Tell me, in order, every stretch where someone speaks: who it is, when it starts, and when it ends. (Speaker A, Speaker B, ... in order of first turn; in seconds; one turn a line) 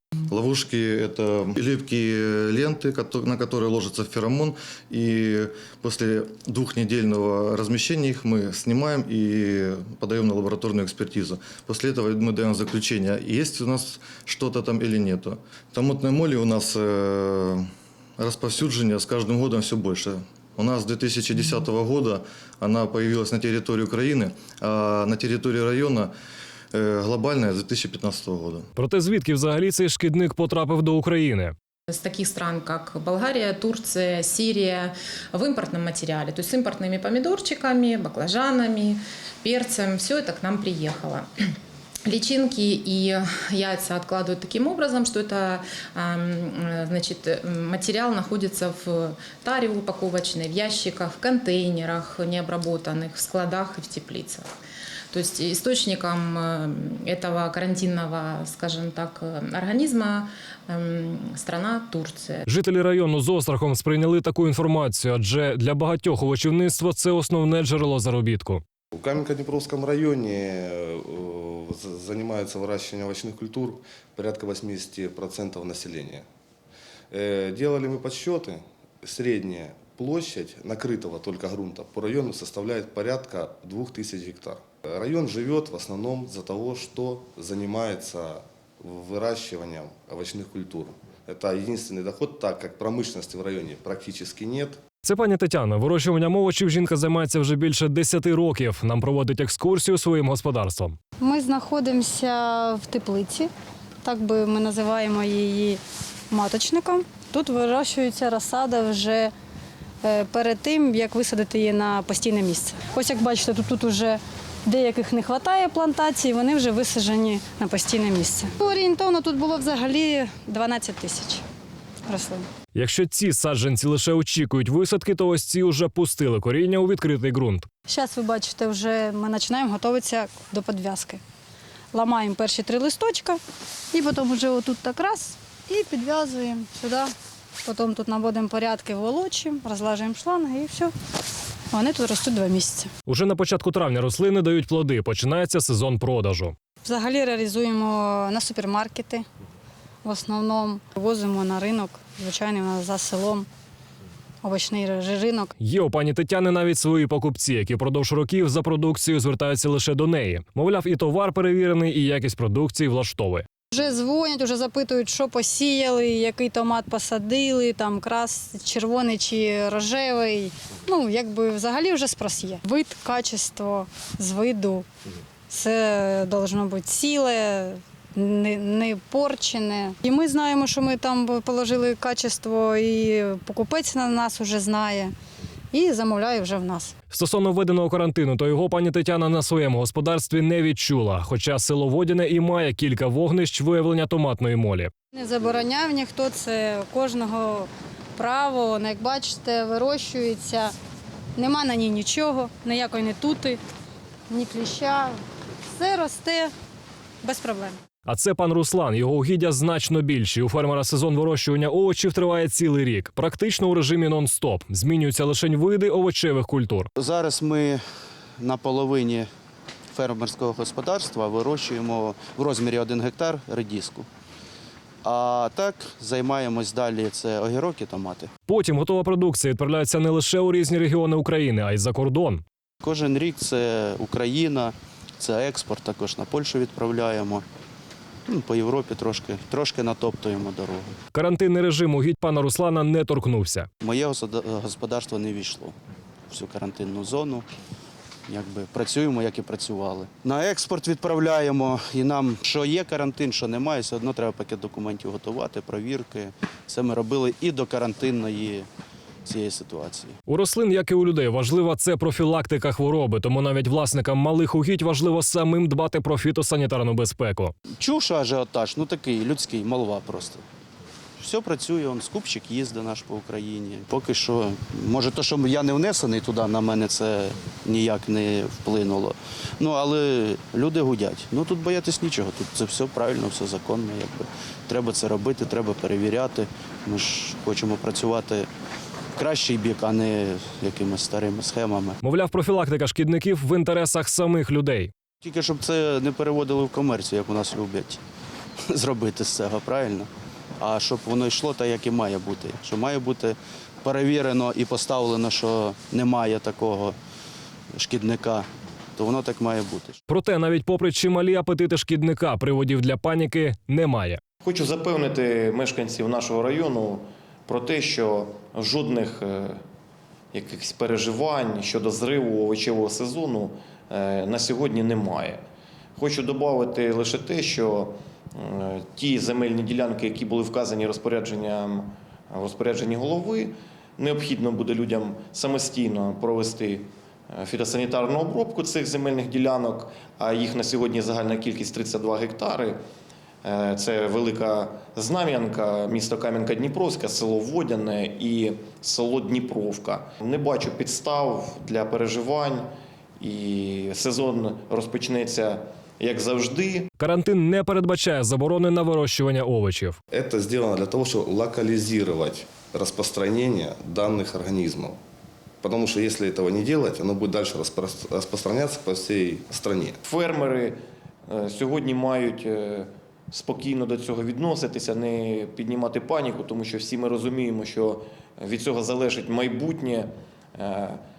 Speaker A: 0.3-17.7
Speaker A: 18.2-26.1
Speaker A: 26.7-28.7
Speaker B: 28.8-31.5
Speaker C: 31.9-41.3
Speaker C: 42.1-54.5
Speaker C: 55.1-62.5
Speaker B: 62.5-68.6
Speaker D: 68.9-76.3
Speaker D: 77.1-94.8
Speaker B: 95.0-101.0
Speaker E: 101.2-103.5
Speaker E: 104.0-105.8
Speaker E: 106.3-109.3
Speaker E: 110.0-121.4
Speaker E: 122.1-122.5
Speaker B: 122.7-127.7
Speaker E: 127.9-131.2
Speaker E: 131.9-133.4
Speaker E: 133.9-137.1
Speaker E: 137.6-140.9
Speaker E: 141.7-142.9
Speaker B: 143.1-146.6
Speaker E: 146.8-149.2
Speaker E: 150.0-153.5
Speaker E: 154.4-155.5
Speaker B: 155.6-163.5
Speaker E: 163.7-174.9
Speaker E: 175.5-185.1
Speaker E: 185.7-186.9
Speaker B: 187.1-194.9
Speaker E: 195.1-200.7
Speaker E: 201.3-203.6
Speaker E: 204.3-205.2
Speaker E: 205.7-206.5
Speaker E: 207.2-207.8
Speaker B: 208.1-216.9
Speaker F: 217.0-217.8
Speaker F: 218.4-219.3
Speaker F: 219.9-224.1
Speaker F: 225.0-228.3
Speaker B: 228.5-232.4
Speaker F: 232.8-237.4
Speaker F: 238.3-240.9
Speaker B: 241.1-243.7
Speaker F: 243.8-245.8
Speaker F: 246.3-247.4
Speaker F: 248.3-258.6
Speaker F: 259.2-260.1
Speaker B: 260.3-267.5
Speaker F: 267.8-270.4
Speaker F: 271.2-288.5
Speaker F: 289.1-292.0
Speaker B: 292.0-294.9
Speaker F: 295.2-298.0
Speaker F: 298.6-300.1
Speaker F: 300.6-306.9
Speaker F: 307.7-310.0
Speaker B: 310.1-314.2
Speaker G: 314.4-319.6
Speaker G: 320.3-325.4
Speaker G: 326.0-342.8
Speaker G: 343.4-352.7
Speaker G: 353.2-356.9
Speaker B: 357.0-360.0
Speaker D: 360.1-365.0
Speaker D: 365.6-370.0
Speaker G: 370.0-381.0